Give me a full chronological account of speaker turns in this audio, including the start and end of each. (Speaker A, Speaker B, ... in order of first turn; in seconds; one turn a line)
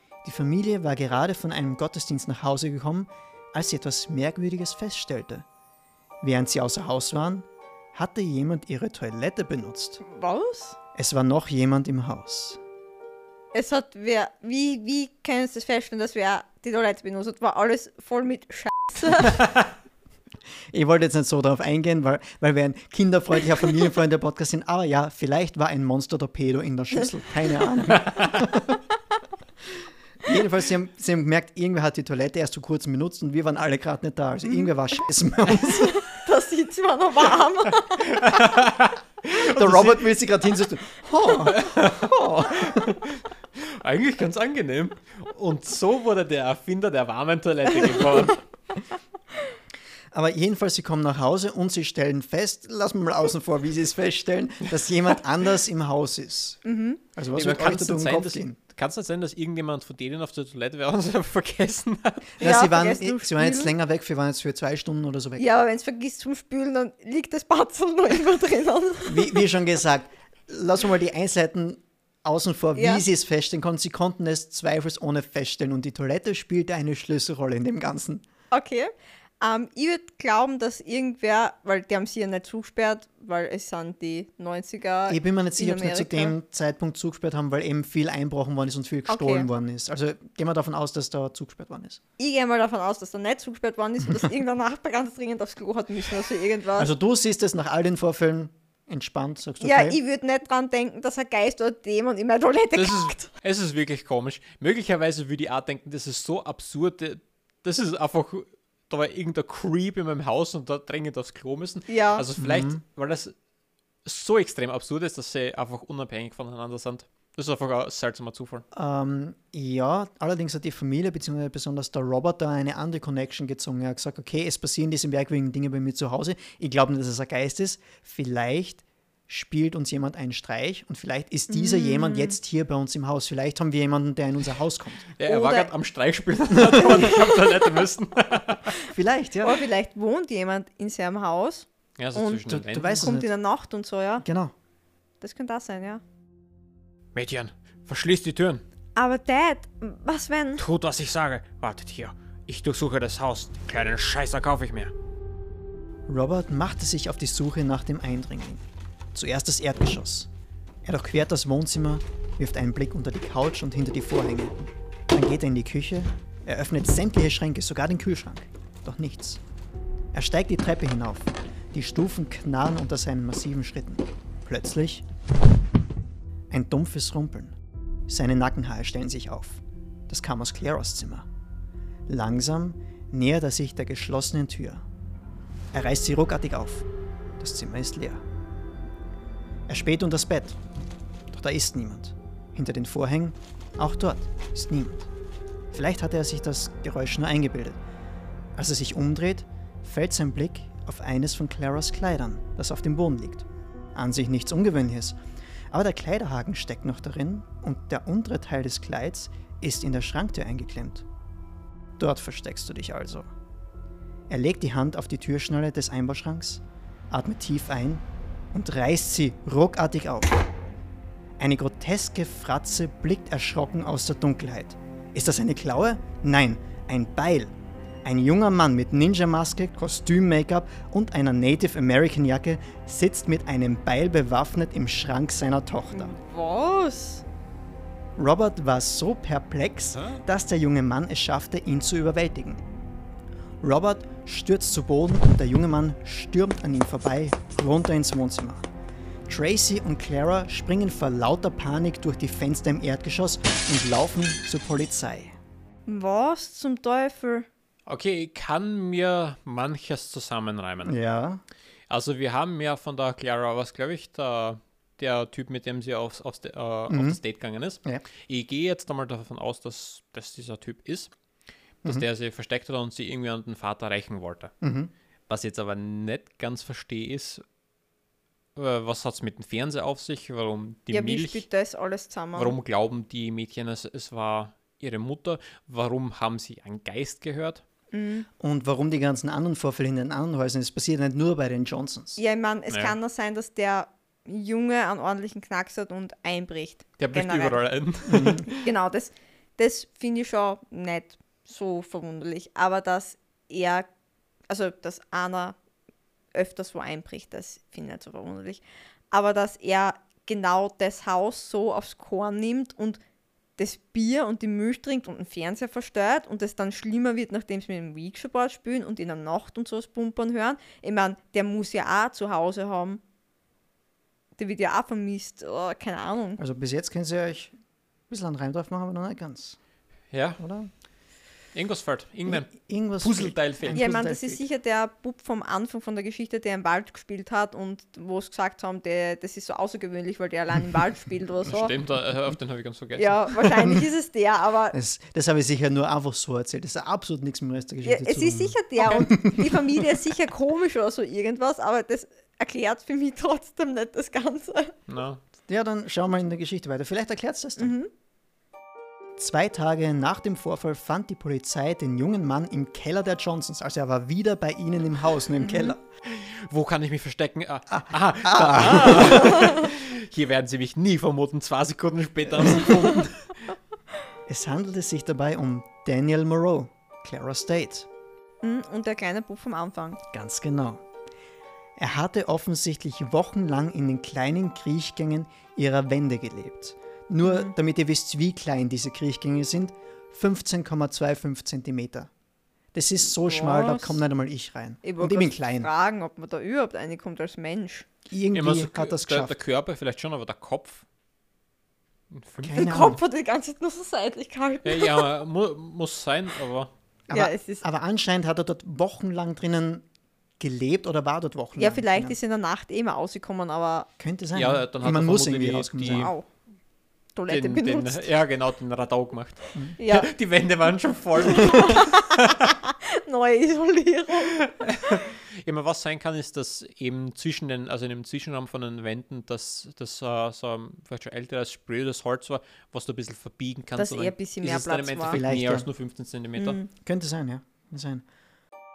Speaker A: 0.2-5.5
Speaker A: 6.2-10.0
Speaker B: 10.0-10.8
Speaker A: 10.9-12.6
Speaker B: 13.5-19.4
Speaker A: 20.7-28.8
Speaker A: 30.2-36.0
Speaker B: 35.9-38.2
Speaker C: 37.7-40.1
Speaker A: 39.5-42.9
Speaker C: 41.4-48.4
Speaker A: 50.1-56.6
Speaker B: 56.6-57.0
Speaker A: 57.1-58.6
Speaker C: 57.3-62.4
Speaker A: 62.4-65.4
Speaker B: 62.4-63.7
Speaker B: 65.4-69.4
Speaker A: 69.0-78.2
Speaker B: 72.8-73.0
Speaker B: 78.5-86.3
Speaker A: 85.1-92.0
Speaker B: 89.1-89.5
Speaker B: 92.2-96.9
Speaker A: 96.8-100.0
Speaker B: 99.6-103.3
Speaker C: 102.7-113.3
Speaker B: 111.9-112.3
Speaker A: 112.4-112.8
Speaker C: 114.0-118.7
Speaker A: 118.7-135.1
Speaker B: 131.5-132.4
Speaker C: 135.2-138.7
Speaker B: 135.2-135.7
Speaker A: 136.6-136.9
Speaker A: 138.8-139.7
Speaker B: 139.4-144.2
Speaker C: 142.0-143.2
Speaker A: 142.4-143.3
Speaker A: 144.2-144.5
Speaker B: 145.2-146.0
Speaker C: 147.1-148.6
Speaker B: 149.0-150.6
Speaker C: 150.6-154.9
Speaker A: 156.1-158.6
Speaker A: 159.1-160.3
Speaker A: 160.8-169.4
Speaker A: 170.1-175.1
Speaker A: 176.5-177.6
Speaker A: 178.1-181.3
Speaker A: 182.1-184.8
Speaker A: 185.7-186.9
Speaker A: 187.4-188.2
Speaker A: 189.7-190.6
Speaker A: 191.3-195.1
Speaker A: 195.7-197.8
Speaker A: 198.6-205.2
Speaker A: 205.7-211.1
Speaker A: 212.0-213.3
Speaker A: 214.3-220.4
Speaker A: 221.4-227.5
Speaker A: 228.1-236.2
Speaker B: 235.9-237.2
Speaker A: 238.2-242.6
Speaker A: 243.6-248.7
Speaker A: 249.3-255.4
Speaker B: 255.9-257.5
Speaker C: 257.9-261.0
Speaker A: 260.9-261.4
Speaker C: 261.9-271.1
Speaker A: 266.9-267.2
Speaker C: 271.8-274.5
Speaker A: 274.6-274.9
Speaker C: 275.3-277.4
Speaker C: 278.6-281.4
Speaker B: 280.9-282.6
Speaker C: 282.4-287.6
Speaker B: 287.9-288.3
Speaker A: 288.4-292.2
Speaker B: 292.2-297.6
Speaker C: 292.7-293.0
Speaker C: 297.0-298.7
Speaker A: 298.1-298.5
Speaker B: 298.5-303.9
Speaker B: 304.5-305.6
Speaker B: 306.3-313.0
Speaker B: 313.6-323.0
Speaker B: 324.4-326.4
Speaker A: 326.4-327.6
Speaker A: 328.1-329.6
Speaker C: 330.1-330.4
Speaker A: 330.4-330.7
Speaker C: 331.5-333.9
Speaker A: 332.3-334.4
Speaker B: 333.7-341.7
Speaker C: 341.4-343.6
Speaker B: 343.0-344.8
Speaker A: 344.7-349.9
Speaker B: 347.9-354.8
Speaker C: 354.9-355.2
Speaker A: 355.5-357.7
Speaker B: 357.6-357.9
Speaker A: 359.2-365.8
Speaker B: 365.4-365.8
Speaker C: 366.0-373.4
Speaker A: 367.7-369.6
Speaker A: 374.3-377.9
Speaker B: 378.4-380.0
Speaker A: 380.1-380.8
Speaker A: 381.8-392.1
Speaker B: 387.2-387.5
Speaker A: 392.7-395.7
Speaker B: 393.1-394.0
Speaker B: 394.8-397.9
Speaker A: 398.1-399.3
Speaker C: 398.3-400.9
Speaker C: 402.1-402.9
Speaker A: 402.4-403.0
Speaker B: 402.5-405.1
Speaker C: 404.6-406.7
Speaker A: 407.1-409.9
Speaker B: 407.1-407.6
Speaker A: 410.4-412.2
Speaker B: 411.6-413.9
Speaker A: 414.0-416.1
Speaker C: 414.3-416.1
Speaker B: 415.9-416.2
Speaker B: 417.1-418.1
Speaker C: 417.3-422.6
Speaker B: 419.8-420.1
Speaker B: 421.2-424.9
Speaker C: 424.2-436.6
Speaker B: 433.8-435.2
Speaker A: 435.1-435.7
Speaker B: 436.4-436.7
Speaker A: 436.9-438.0